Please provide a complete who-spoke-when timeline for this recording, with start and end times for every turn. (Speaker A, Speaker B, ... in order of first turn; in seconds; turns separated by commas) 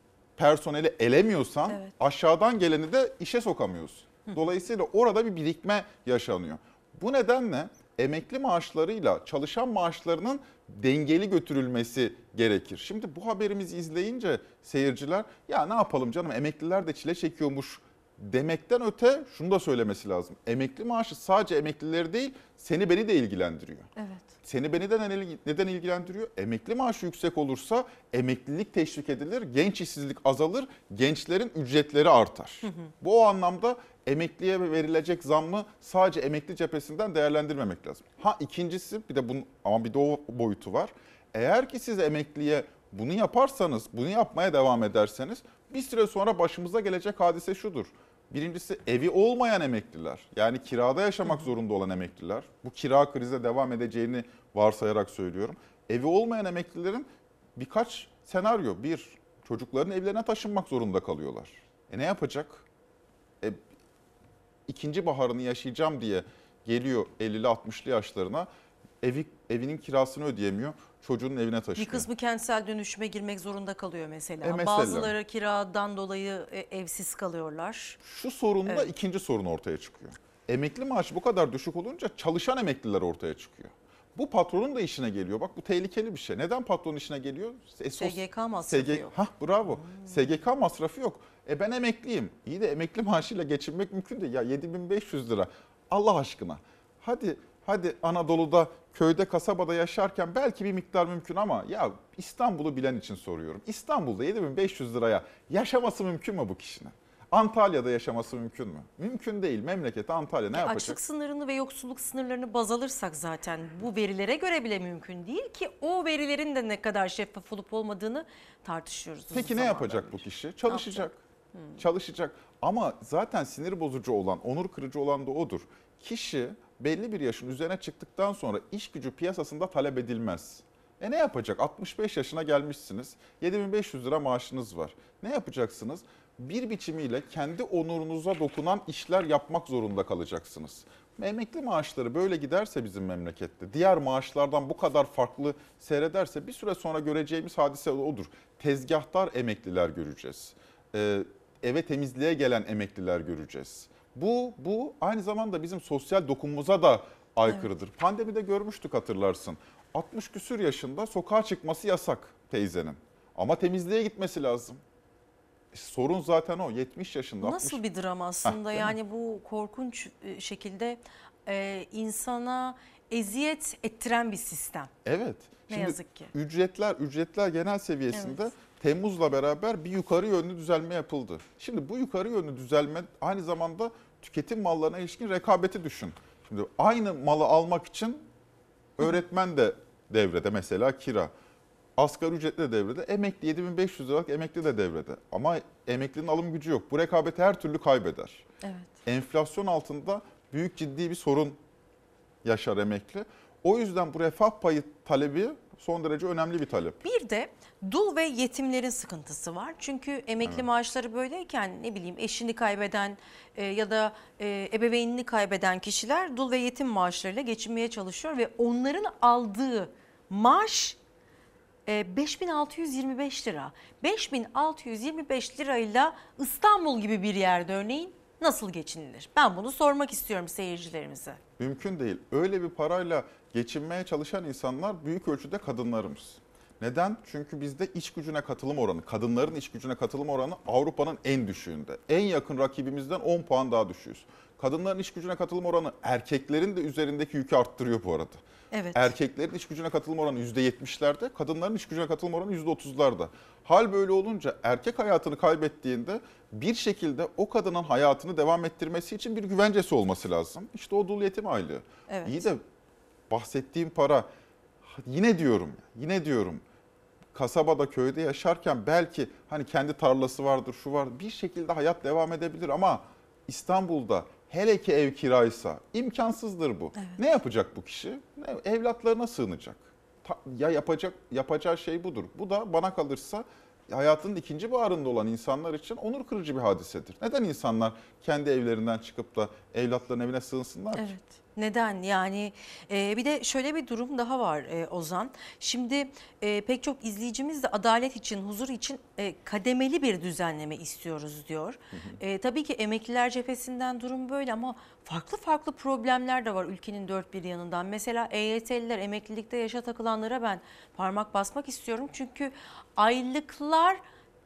Speaker A: 0.4-23.9, Speaker B: 1.7-1.9, Speaker B: 24.0-24.3, Speaker A: 24.4-62.6, Speaker A: 64.7-68.5, Speaker A: 69.0-72.1, Speaker B: 71.8-78.0, Speaker A: 74.4-75.1, Speaker A: 78.0-111.0, Speaker B: 88.0-89.2, Speaker B: 89.7-90.2, Speaker B: 110.5-121.8, Speaker A: 119.3-121.2, Speaker A: 121.8-164.8, Speaker A: 165.7-167.8, Speaker B: 167.4-174.9, Speaker A: 168.4-168.9, Speaker A: 175.1-188.2, Speaker B: 175.7-176.3, Speaker B: 178.1-178.5, Speaker A: 189.0-191.3, Speaker A: 192.0-198.4, Speaker B: 198.6-198.9, Speaker A: 199.1-201.6, Speaker A: 202.4-207.0, Speaker B: 207.0-221.0, Speaker B: 221.9-231.4, Speaker A: 231.6-248.4, Speaker B: 248.7-249.1, Speaker A: 248.9-262.6, Speaker B: 262.1-262.4, Speaker A: 263.3-264.3, Speaker A: 264.9-266.6, Speaker A: 267.3-291.1, Speaker B: 291.0-314.0, Speaker A: 301.9-302.2